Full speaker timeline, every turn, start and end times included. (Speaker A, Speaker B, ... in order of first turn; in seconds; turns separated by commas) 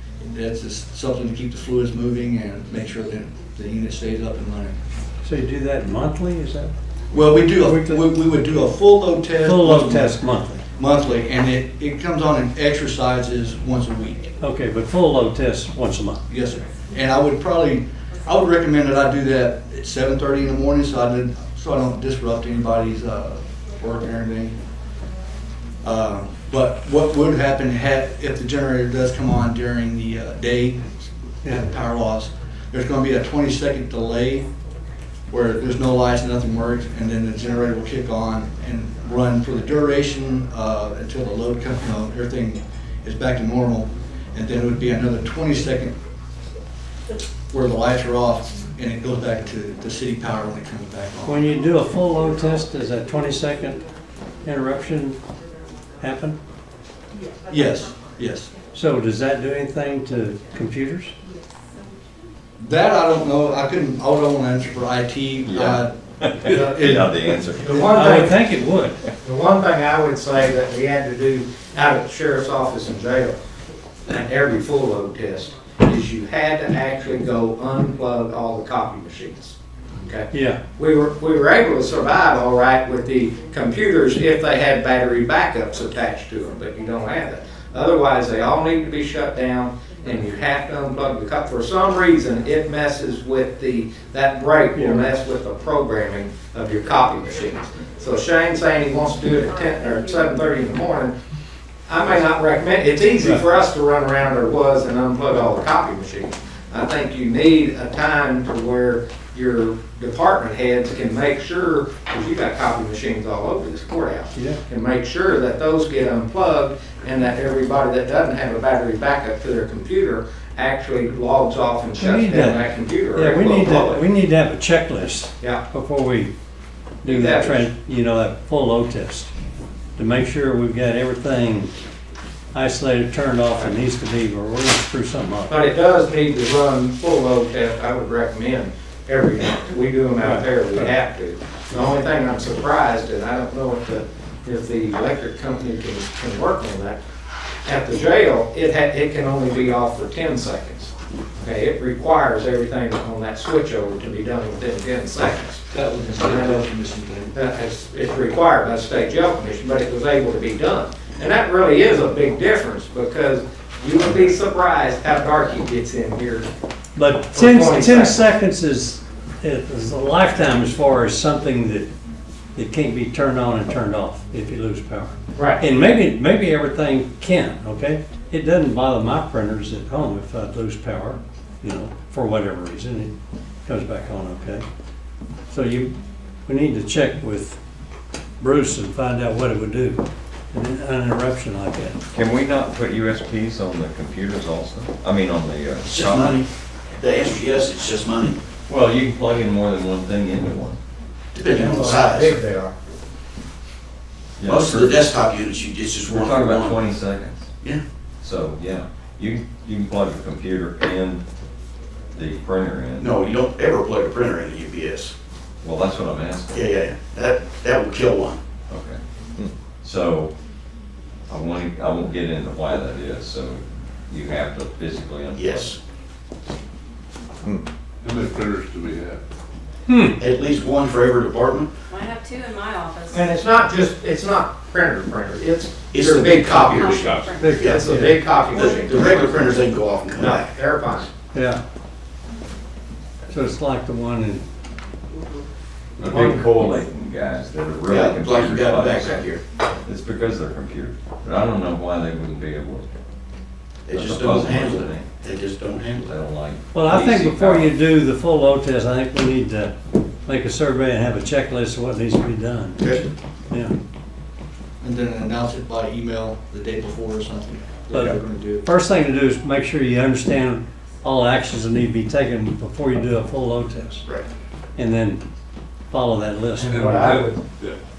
Speaker A: 0.2-4.8, Speaker B: 5.2-6.8, Speaker A: 7.1-10.2, Speaker B: 7.4-8.1, Speaker B: 9.4-10.6, Speaker A: 10.8-14.2, Speaker B: 14.4-16.2, Speaker A: 16.3-24.6, Speaker A: 25.8-34.5, Speaker A: 35.3-46.0, Speaker A: 47.5-51.6, Speaker B: 51.2-53.8, Speaker B: 54.4-55.2, Speaker B: 56.0-56.4, Speaker A: 57.5-58.5, Speaker B: 58.7-61.1, Speaker A: 62.6-65.9, Speaker C: 65.5-67.8, Speaker A: 66.4-67.9, Speaker D: 66.5-66.8, Speaker D: 67.6-68.4, Speaker B: 67.9-69.0, Speaker D: 69.2-73.4, Speaker D: 74.1-101.1, Speaker B: 80.3-80.6, Speaker B: 94.7-95.1, Speaker D: 101.9-124.0, Speaker B: 103.2-103.4, Speaker B: 114.3-114.6, Speaker B: 122.0-122.6, Speaker B: 123.1-126.3, Speaker B: 127.0-129.3, Speaker D: 127.0-127.7, Speaker B: 130.0-131.7, Speaker B: 132.5-135.5, Speaker D: 135.5-147.0, Speaker B: 140.2-140.9, Speaker D: 147.7-156.7, Speaker A: 155.7-157.3, Speaker D: 157.3-166.5, Speaker B: 167.0-171.9, Speaker D: 167.3-168.2, Speaker B: 172.6-183.1, Speaker D: 175.4-175.7, Speaker B: 183.7-184.7, Speaker B: 185.5-185.9, Speaker B: 186.5-187.6, Speaker B: 188.4-192.0, Speaker C: 192.1-196.4, Speaker E: 195.9-198.4, Speaker C: 198.7-200.8, Speaker E: 201.3-202.4, Speaker D: 201.5-202.8, Speaker C: 204.4-205.1, Speaker E: 204.5-206.8, Speaker C: 206.1-207.5, Speaker C: 208.2-211.2, Speaker C: 212.2-213.1, Speaker E: 213.0-215.1, Speaker C: 215.6-216.7, Speaker E: 216.5-218.4, Speaker C: 218.7-219.0, Speaker C: 219.8-220.3, Speaker C: 221.3-225.7, Speaker E: 225.3-225.8, Speaker F: 228.0-229.2, Speaker B: 229.9-230.2, Speaker E: 230.2-231.7, Speaker G: 231.9-233.2, Speaker D: 233.1-239.6, Speaker E: 235.9-237.9, Speaker G: 236.8-237.5, Speaker F: 237.0-237.3, Speaker B: 237.4-238.2, Speaker E: 238.5-240.5, Speaker D: 240.1-241.1, Speaker B: 241.3-241.6, Speaker B: 243.3-244.4, Speaker F: 246.0-246.5, Speaker C: 246.0-249.3, Speaker E: 247.9-249.4, Speaker C: 249.8-252.9, Speaker E: 253.9-256.1, Speaker C: 253.9-255.2, Speaker C: 255.9-257.7, Speaker B: 256.7-259.7, Speaker B: 260.3-263.8, Speaker E: 262.8-263.1, Speaker A: 264.8-268.6, Speaker B: 267.9-274.0, Speaker B: 274.8-275.2, Speaker B: 275.9-276.9, Speaker D: 276.6-277.4, Speaker F: 276.7-277.8